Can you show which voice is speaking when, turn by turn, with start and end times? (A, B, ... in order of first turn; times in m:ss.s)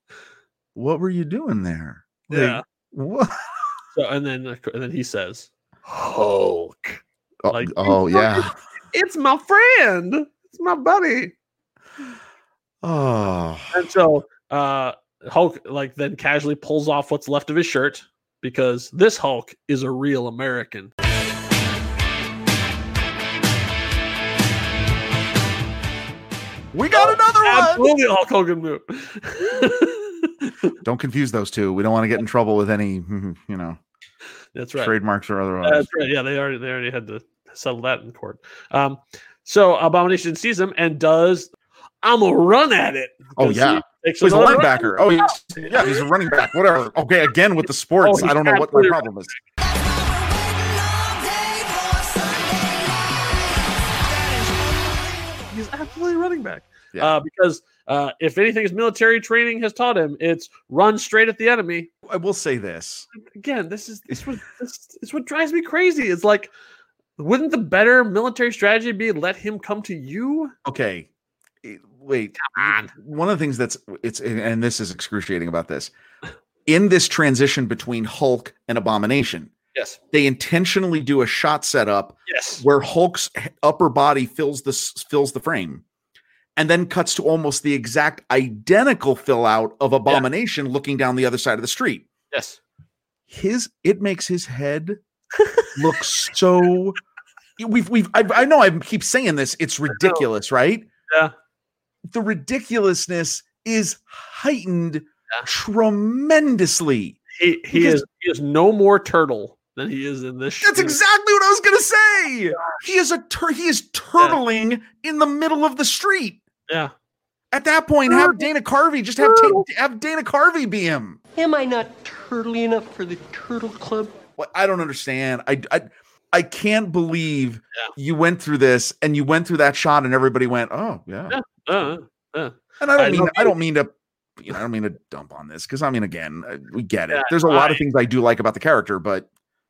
0:00.8-0:03.4 A
0:02.3-0:02.6 B
0:04.0-0:11.4 B
0:07.4-0:08.5 A
0:12.8-0:13.7 A
0:13.7-0:20.9 B
0:26.7-0:27.9 A
0:26.9-0:30.7 B
0:30.8-0:33.8 A
0:34.6-0:35.0 B
0:34.8-0:35.9 A
0:35.6-0:46.0 B
0:43.4-0:49.3 A
0:48.0-0:49.4 B
0:49.7-0:53.7 C
0:54.2-0:54.7 B
0:55.5-1:01.9 B
1:02.1-1:03.1 A
1:03.3-1:06.5 B
1:07.2-1:10.5 B
1:10.6-1:11.1 A
1:11.6-1:15.9 A
1:12.4-1:12.9 B
1:16.7-1:19.5 A
1:19.7-1:20.0 B
1:20.1-1:25.8 A
1:22.3-1:22.6 B
1:26.6-1:32.1 A
1:32.3-1:32.6 B
1:33.3-1:35.0 A
1:35.4-1:35.7 B
1:35.8-1:37.0 A
1:37.6-1:40.9 A
1:39.9-1:40.2 B
1:42.1-1:47.2 A
1:47.4-1:51.0 B
1:47.7-1:48.0 A
1:50.6-1:56.4 A
1:57.5-2:01.2 A
1:58.1-1:58.4 B
1:59.2-1:59.6 B
2:01.4-2:04.2 D
2:02.1-2:04.0 C
2:04.4-2:11.9 A
2:11.3-2:13.6 B
2:12.8-2:19.3 A
2:17.1-2:17.8 B